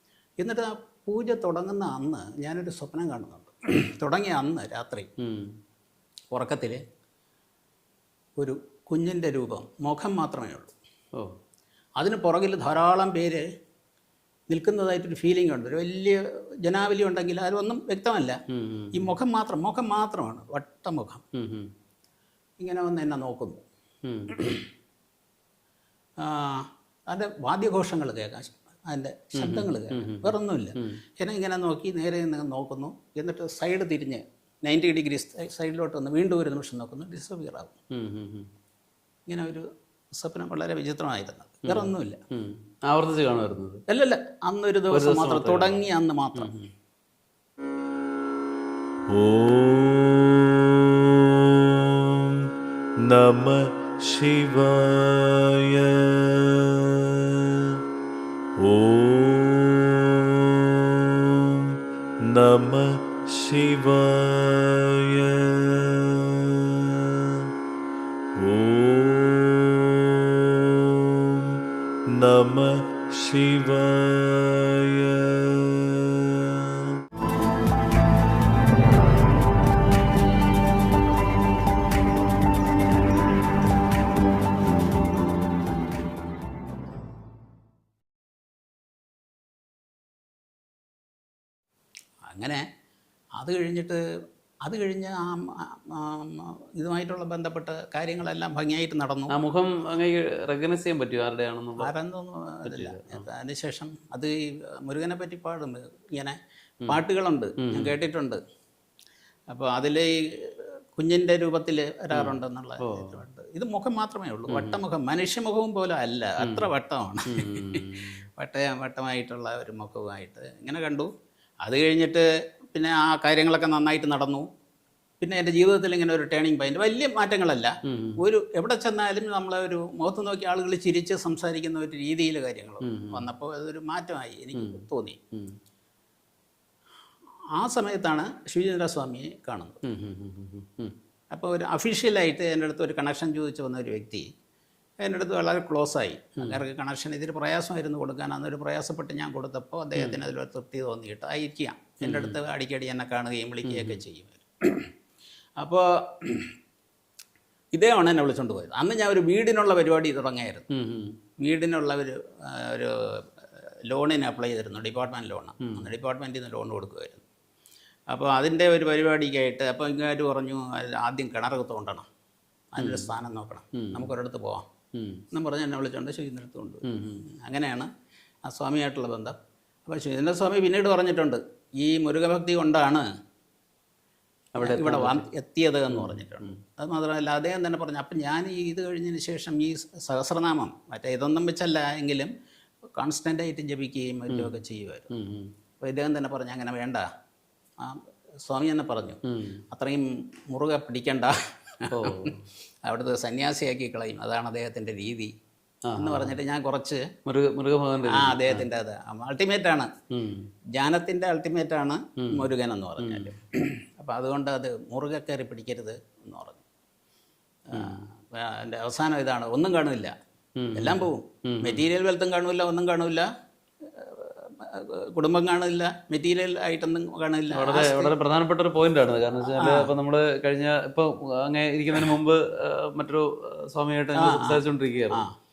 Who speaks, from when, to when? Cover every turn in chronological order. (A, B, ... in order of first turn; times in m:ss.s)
0:00.4-0:05.1 A
0:05.2-0:05.5 B
0:06.3-0:06.8 A
0:08.4-0:10.7 A
0:12.0-0:13.4 A
0:14.5-0:18.4 A
0:18.5-0:19.1 B
0:18.9-0:21.2 A
0:21.3-0:21.7 B
0:22.6-0:23.6 A
0:24.0-0:24.3 B
0:24.3-0:24.7 A
0:26.2-0:37.7 A
0:29.4-0:31.0 B
0:37.9-0:38.5 B
0:39.3-0:39.6 A
0:40.2-0:42.2 A
0:41.7-0:43.8 B
0:43.9-0:46.6 A
0:44.9-0:45.8 B
0:46.4-0:46.6 B
0:49.1-0:52.4 C
0:53.0-0:57.8 C
0:58.6-1:07.5 C
1:08.4-1:17.0 C
1:32.3-1:32.6 A
1:33.4-1:34.0 A
1:34.6-1:39.4 A
1:39.3-1:41.9 B
1:41.8-1:46.4 A
1:42.6-1:43.2 B
1:46.9-1:48.4 A
1:47.6-1:47.9 B
1:49.5-2:01.1 A
1:52.1-1:53.2 B
1:54.5-1:54.8 B
1:56.4-1:56.7 B
1:57.3-1:58.2 B
2:01.6-2:04.5 A
2:05.2-2:15.2 A
2:07.9-2:08.2 B
2:12.8-2:13.2 B
2:14.6-2:15.5 B
2:17.6-2:19.8 A
2:19.8-2:20.9 B
2:21.3-2:24.3 A
2:25.0-2:34.9 A
2:32.0-2:32.4 B
2:33.7-2:34.0 B
2:35.6-2:36.5 A
2:37.7-2:40.7 A
2:40.7-2:41.2 B
2:41.4-2:47.2 A
2:45.6-2:45.9 B
2:48.1-2:52.1 A
2:52.7-2:54.6 A
2:52.8-2:53.1 B
2:53.8-2:54.1 B
2:55.0-2:55.2 B
2:55.3-2:57.9 A
2:56.8-2:57.2 B
2:58.5-2:59.4 A
2:59.9-3:03.0 A
3:04.6-3:05.3 B
3:04.6-3:12.3 A
3:05.9-3:06.5 B
3:13.0-3:15.1 A
3:15.1-3:15.5 B
3:15.8-3:17.1 A
3:17.8-3:19.2 A
3:19.3-3:19.6 B
3:19.7-3:21.4 A
3:21.9-3:22.3 A
3:21.9-3:22.5 B
3:22.8-3:25.3 A
3:25.9-3:26.4 B
3:26.0-3:27.0 A
3:27.3-3:28.7 B
3:28.1-3:29.9 A
3:30.1-3:30.5 B
3:30.8-3:36.6 A
3:32.2-3:32.5 B
3:33.0-3:33.4 B
3:37.7-3:40.1 A
3:37.7-3:38.0 B
3:40.6-3:41.8 B
3:40.8-3:43.3 A
3:44.0-3:48.1 A
3:47.5-3:55.3 B
3:49.5-3:49.9 A
3:54.2-3:55.3 A